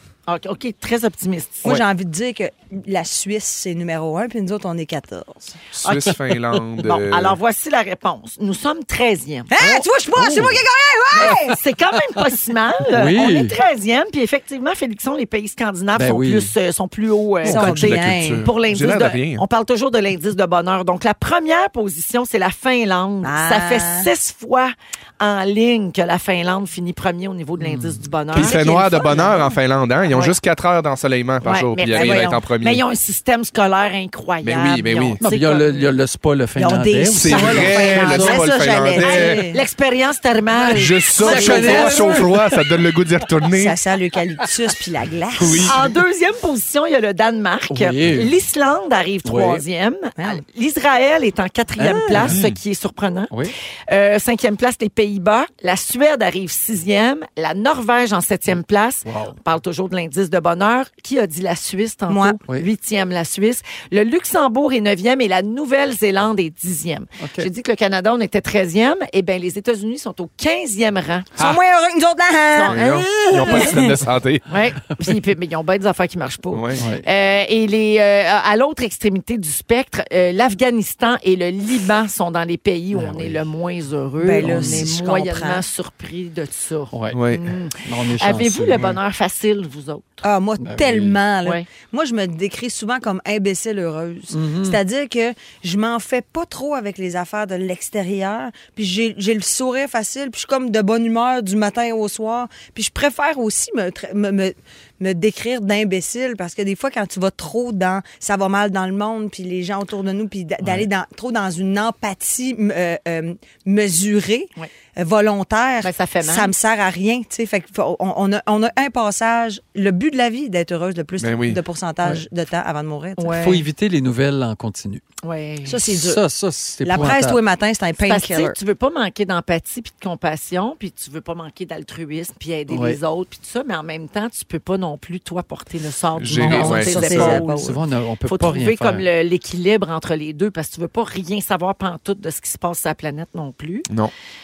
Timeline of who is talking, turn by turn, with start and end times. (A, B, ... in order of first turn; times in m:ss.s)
0:00.3-0:01.7 A
0:01.6-0:05.6 B
0:05.7-0:07.4 C
0:05.8-0:06.1 A
0:06.8-0:09.6 A
0:09.5-0:11.6 B
0:09.6-0:10.6 D
0:11.2-0:29.3 A
0:11.2-0:11.5 D
0:12.8-0:13.6 D
0:15.9-0:16.5 D
0:17.4-0:18.5 B
0:17.4-0:17.7 D
0:17.5-0:19.4 C
0:23.2-0:24.1 B
0:27.6-0:28.0 D
0:28.3-0:32.8 C
0:28.3-0:29.6 B
0:30.1-0:30.3 A
0:31.4-0:35.9 A
0:31.9-0:32.4 B
0:34.4-0:35.2 C
0:35.2-0:38.4 D
0:36.6-0:39.6 B
0:37.2-0:39.4 C
0:37.3-0:38.0 A
0:39.0-0:42.3 A
0:40.6-0:43.8 C
0:41.2-0:42.5 D
0:41.3-0:41.9 B
0:43.5-0:45.8 B
0:45.3-0:45.8 C
0:45.6-1:11.3 A
0:47.7-0:48.4 D
0:49.2-0:49.6 D
0:50.2-0:50.4 B
0:51.8-0:52.4 D
0:52.2-0:52.6 C
0:59.0-0:59.4 D
1:02.1-1:02.4 B
1:07.2-1:07.5 D
1:11.4-1:13.9 B
1:12.5-1:13.7 A
1:12.7-1:14.5 C
1:14.5-1:30.3 A
1:16.5-1:16.8 C
1:16.8-1:17.0 D
1:22.9-1:23.4 D
1:24.2-1:25.6 B
1:24.4-1:24.9 D
1:26.9-1:27.2 D
1:27.1-1:27.5 C
1:27.8-1:28.9 D
1:30.2-2:03.4 B
1:30.6-1:31.2 D
1:34.3-1:34.8 D
1:55.8-1:56.5 A
2:01.2-2:01.6 C
2:03.2-2:03.7 A
2:03.3-2:05.0 D
2:05.2-2:05.8 A
2:05.6-2:06.2 B
2:05.9-2:07.4 D
2:06.8-2:08.6 B
2:08.0-2:23.9 A
2:12.7-2:13.0 D
2:16.2-2:17.4 C
2:16.3-2:19.1 D
2:16.5-2:17.8 B